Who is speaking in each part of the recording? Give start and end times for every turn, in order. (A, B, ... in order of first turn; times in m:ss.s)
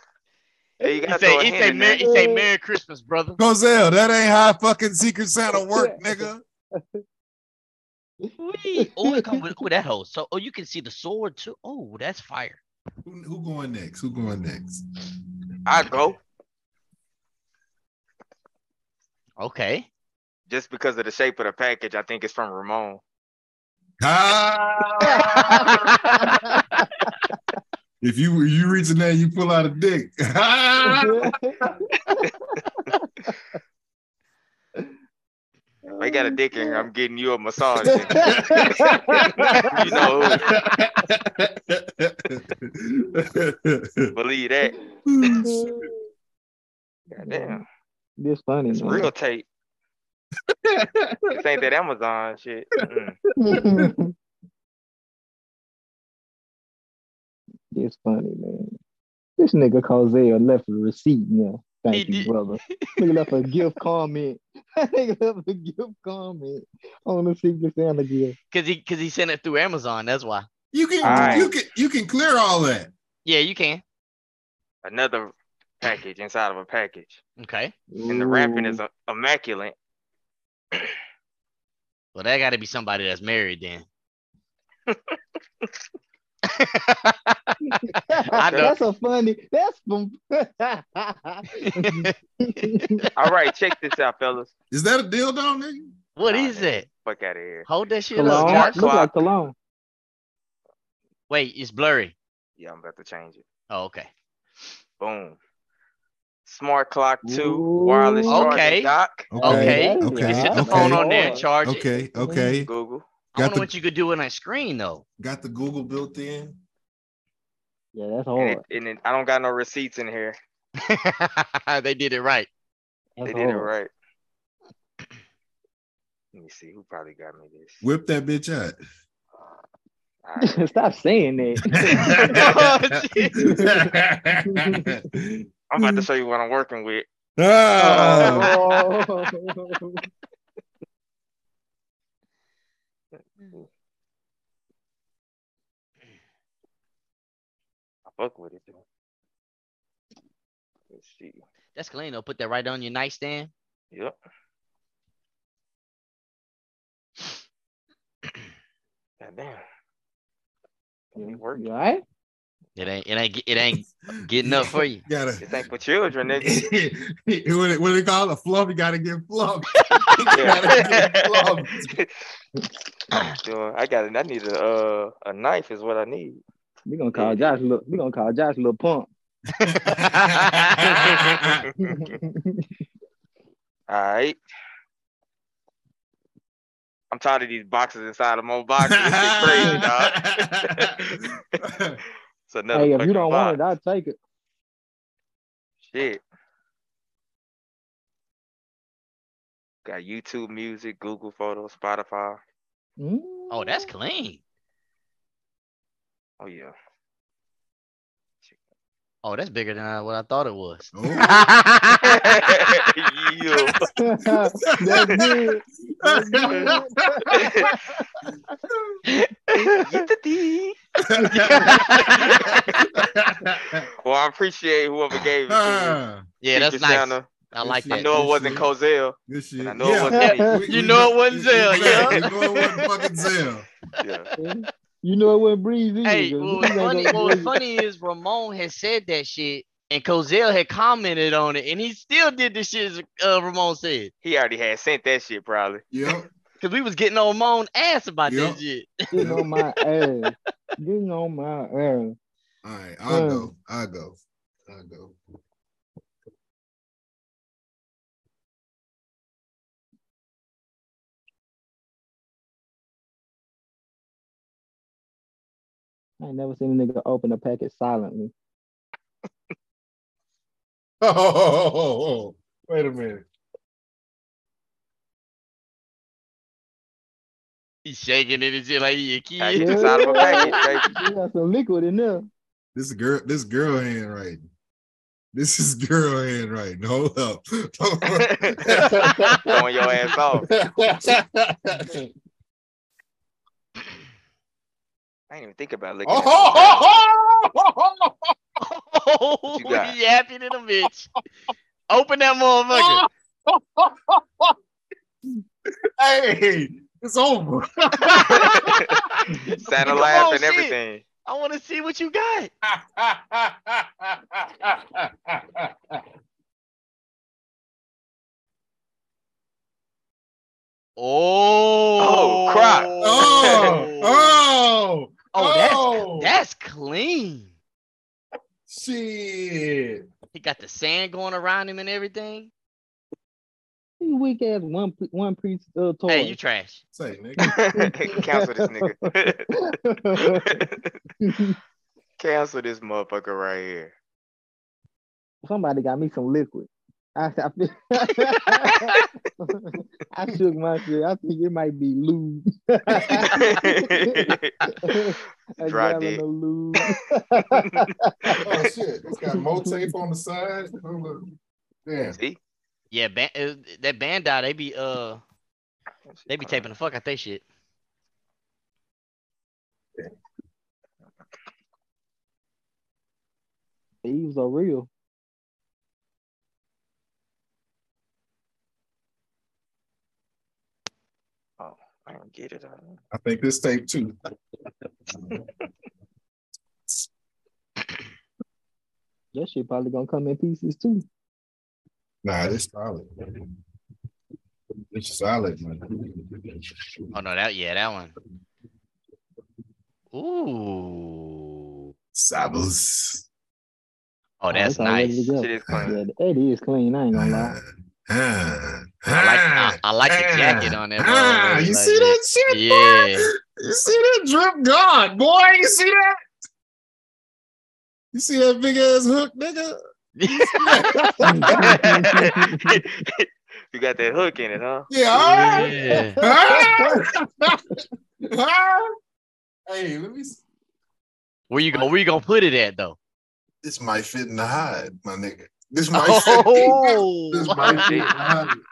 0:00.8-0:02.0 A
0:01.1-0:03.4 B
0:02.0-0:02.5 C
0:03.4-0:06.4 D
0:05.6-0:06.3 C
0:08.2-0:09.4 C
0:08.4-0:12.6 B
0:13.0-0:14.8 D
0:15.7-0:16.2 A
0:19.4-0:19.9 B
0:20.5-0:23.0 A
0:24.0-0:26.4 D
0:25.1-0:27.4 C
0:25.6-0:26.3 B
0:28.0-0:31.7 D
0:30.8-0:33.1 C
0:35.9-0:36.9 C
0:36.0-0:40.5 A
0:37.8-0:39.7 D
0:37.8-0:40.0 C
0:40.2-0:44.1 D
0:44.1-0:44.8 A
0:45.1-0:45.8 D
0:45.4-0:46.0 C
0:47.1-0:47.6 A
0:47.2-0:47.6 C
0:48.2-0:49.1 C
0:48.7-0:49.5 A
0:50.5-0:51.4 D
0:51.3-0:53.2 A
0:53.4-0:54.1 C
0:53.5-0:53.9 D
0:57.7-0:58.8 C
0:59.4-1:08.4 C
1:01.9-1:03.3 B
1:08.5-1:10.5 B
1:10.7-1:12.9 D
1:11.0-1:11.5 C
1:11.0-1:11.5 A
1:13.2-1:13.8 B
1:14.8-1:17.2 A
1:17.4-1:17.7 B
1:17.9-1:18.8 C
1:18.1-1:19.8 A
1:22.2-1:23.8 B
1:24.9-1:25.2 A
1:26.5-1:28.8 B
1:27.8-1:33.1 C
1:28.3-1:28.7 A
1:31.6-1:33.3 B
1:33.2-1:34.5 A
1:34.7-1:35.9 D
1:36.2-1:36.9 B
1:36.2-1:37.7 A
1:37.7-1:38.9 B
1:38.1-1:39.6 C
1:38.2-1:39.1 A
1:41.3-1:42.1 B
1:42.6-1:43.4 A
1:43.7-1:44.1 B
1:45.0-1:45.4 A
1:46.5-1:49.3 A
1:47.2-1:48.6 C
1:48.3-1:51.9 B
1:49.3-1:51.0 D
1:49.4-1:51.5 C
1:51.1-1:51.4 A
1:51.6-1:52.7 D
1:52.2-1:52.6 C
1:52.6-1:53.1 A
1:53.3-1:55.0 B
1:53.4-1:53.7 D
1:55.2-1:56.6 D
1:57.9-1:58.6 C
1:58.4-2:00.4 A
2:00.8-2:02.5 B
2:03.2-2:03.7 C
2:03.3-2:03.9 A
2:06.3-2:07.8 A
2:07.8-2:08.8 D
2:10.2-2:10.6 A
2:10.4-2:12.4 C
2:11.7-2:16.0 D
2:12.3-2:13.6 B
2:13.4-2:13.9 C
2:14.5-2:14.9 C
2:15.7-2:17.1 A
2:17.4-2:18.5 D
2:17.8-2:20.0 C
2:17.9-2:18.5 A
2:18.5-2:18.8 B
2:28.1-2:28.8 A
2:30.9-2:31.4 A
2:31.8-2:33.5 B
2:39.2-2:39.6 A
2:41.1-2:41.6 A
2:41.2-2:42.0 C
2:42.8-2:45.0 B
2:43.7-2:45.6 D
2:45.4-2:46.6 A
2:46.4-2:51.9 D
2:49.9-2:50.2 B
2:50.3-2:52.1 A
2:53.4-2:56.4 A
2:56.9-2:59.1 C
2:57.2-2:57.5 A
2:59.6-3:01.7 D
2:59.6-3:01.1 B
3:00.9-3:02.2 A
3:01.8-3:02.6 C
3:03.9-3:04.4 A
3:07.1-3:11.4 A
3:08.9-3:12.0 D
3:09.4-3:09.8 C
3:12.5-3:13.6 A
3:12.7-3:14.2 C
3:15.9-3:16.2 A
3:19.8-3:22.4 A
3:23.0-3:23.9 C
3:23.5-3:24.4 B
3:26.4-3:26.8 A
3:29.2-3:32.8 B
3:30.9-3:31.5 D
3:32.0-3:33.9 A
3:33.6-3:37.7 D
3:34.0-3:38.0 C
3:37.3-3:37.7 A
3:38.7-3:39.0 D
3:39.1-3:40.1 B
3:39.8-3:40.8 A
3:41.0-3:43.9 D
3:41.2-3:41.7 C
3:41.4-3:42.9 A
3:41.7-3:42.6 B
3:44.0-3:46.0 A
3:45.5-3:46.2 D
3:46.4-3:48.2 B
3:46.5-3:47.3 A
3:47.6-3:48.7 D
3:47.9-3:50.6 A
3:49.3-3:53.7 D
3:50.2-3:50.6 C
3:50.5-3:52.9 B
3:51.7-3:52.2 A
3:54.0-3:54.3 A
3:54.4-3:57.6 C
3:56.0-4:04.1 B
4:04.2-4:05.8 A
4:05.9-4:06.3 D
4:06.6-4:09.3 B
4:08.3-4:08.6 D
4:09.1-4:12.2 C
4:09.2-4:09.5 D
4:12.6-4:15.2 D
4:13.1-4:13.5 C
4:26.2-4:28.3 C
4:31.0-4:33.2 D
4:37.8-4:40.9 B
4:39.4-4:40.9 A
4:39.6-4:42.3 C
4:42.8-4:44.4 D
4:45.3-4:49.5 D
4:48.1-4:48.7 A
4:49.4-4:50.5 A
4:50.4-4:52.1 D
4:55.3-4:57.0 A
4:56.1-4:58.4 D
4:58.6-5:01.1 B
4:59.6-5:00.0 A
5:01.9-5:03.0 B
5:02.7-5:04.6 D
5:06.0-5:09.0 D
5:08.2-5:08.4 B
5:08.2-5:09.0 A
5:09.4-5:12.5 B
5:09.6-5:11.0 A
5:12.7-5:16.0 D
5:21.0-5:24.4 B
5:22.0-5:23.8 A
5:23.0-5:26.3 D
5:25.3-5:27.5 B
5:28.7-5:30.1 D
5:30.3-5:32.5 B
5:34.0-5:36.4 C
5:36.1-5:36.8 B
5:36.9-5:37.5 D
5:37.4-5:38.8 C
5:37.5-5:39.5 A
5:39.5-5:40.6 C
5:40.2-5:41.0 A
5:41.2-5:41.6 C
5:42.2-5:44.0 A
5:45.4-5:58.4 C
5:53.1-5:56.2 A
5:57.6-5:58.5 A
5:58.4-6:01.2 D
5:59.3-5:59.8 C
6:01.9-6:02.2 D
6:02.1-6:02.4 A
6:02.9-6:05.2 B
6:06.1-6:06.7 A
6:06.3-6:07.4 B
6:14.0-6:14.9 C
6:21.6-6:23.0 A
6:23.1-6:24.1 D
6:29.3-6:31.0 C
6:32.2-6:33.5 D
6:34.9-6:37.1 D
6:37.1-6:38.1 B
6:40.1-6:41.8 B
6:42.1-6:43.2 D
6:44.4-6:45.3 B
6:44.5-6:47.6 C
6:45.4-6:46.0 A
6:45.7-6:45.9 D
6:47.1-6:56.2 D
6:49.1-6:53.3 B
6:58.1-6:59.8 D
7:00.2-7:01.7 B
7:00.3-7:01.7 D
7:01.2-7:02.7 C
7:01.8-7:04.9 A
7:04.9-7:07.6 D
7:05.2-7:06.2 B
7:05.8-7:07.0 C
7:08.2-7:08.9 D
7:09.7-7:10.4 D
7:11.5-7:13.0 B
7:13.6-7:18.6 D
7:15.9-7:18.3 B
7:17.6-7:18.1 A